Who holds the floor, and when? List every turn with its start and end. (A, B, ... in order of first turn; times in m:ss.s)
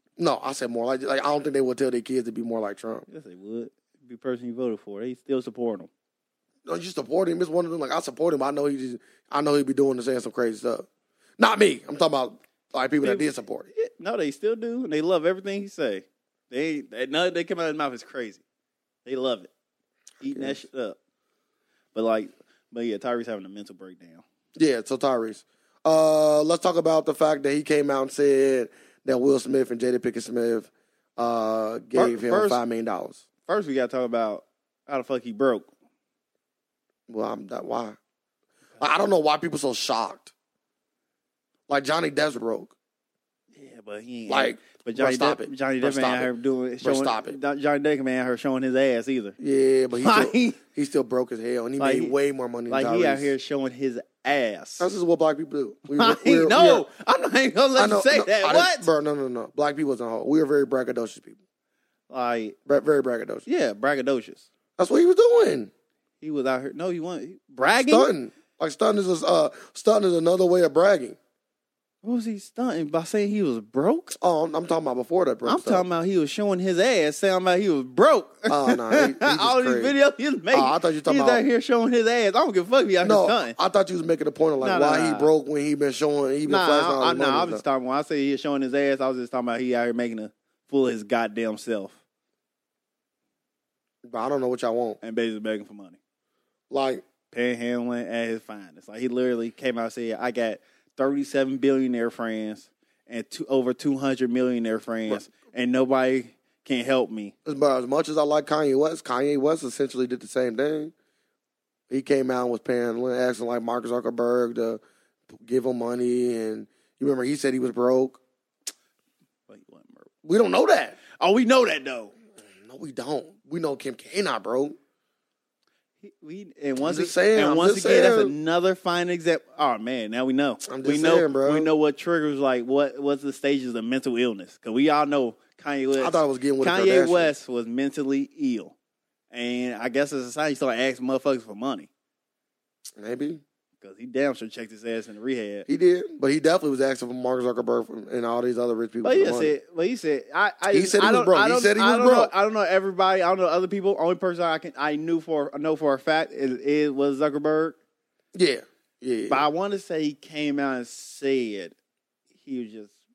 0:00.2-0:03.1 A
0:03.1-0:05.9 B
0:06.7-0:10.9 A
0:11.4-0:13.7 A
0:13.0-0:18.4 B
0:19.1-0:19.5 B
0:20.2-0:21.0 B
0:20.2-0:20.6 A
0:21.9-0:24.2 B
0:24.6-0:33.2 A
0:32.0-0:32.6 B
0:33.5-0:35.7 B
0:37.1-0:38.0 A
0:38.8-0:40.3 A
0:41.7-0:42.8 A
0:43.6-0:49.4 B
0:44.3-0:46.3 A
0:46.8-0:47.4 A
0:49.4-0:53.3 A
0:49.9-0:50.6 B
0:51.8-0:52.2 B
0:52.7-0:54.9 B
0:54.8-0:56.9 A
0:55.9-0:58.9 B
0:57.8-1:01.4 A
1:02.1-1:02.6 B
1:02.7-1:03.4 A
1:03.5-1:04.5 B
1:04.8-1:05.7 A
1:06.2-1:08.1 B
1:07.7-1:11.2 A
1:12.0-1:14.2 B
1:14.2-1:15.8 A
1:15.4-1:23.6 B
1:18.5-1:20.0 A
1:20.5-1:21.4 A
1:23.0-1:27.6 A
1:24.6-1:25.3 B
1:26.5-1:32.0 B
1:34.1-1:35.0 A
1:35.0-1:36.0 B
1:36.7-1:37.0 A
1:37.3-1:47.3 B
1:47.4-1:50.9 A
1:51.9-1:54.8 A
1:55.3-1:58.2 A
1:59.5-2:00.1 B
2:00.2-2:01.0 A
2:01.2-2:02.1 B
2:02.6-2:04.8 A
2:06.0-2:18.8 B
2:06.8-2:08.3 A
2:10.7-2:11.7 A
2:16.0-2:17.3 A
2:19.3-2:21.9 B
2:23.0-2:23.4 A
2:23.8-2:25.7 B
2:25.7-2:29.6 A
2:29.0-2:37.8 B
2:30.7-2:32.3 A
2:38.4-2:39.5 A
2:39.3-2:41.8 B
2:42.4-2:42.9 B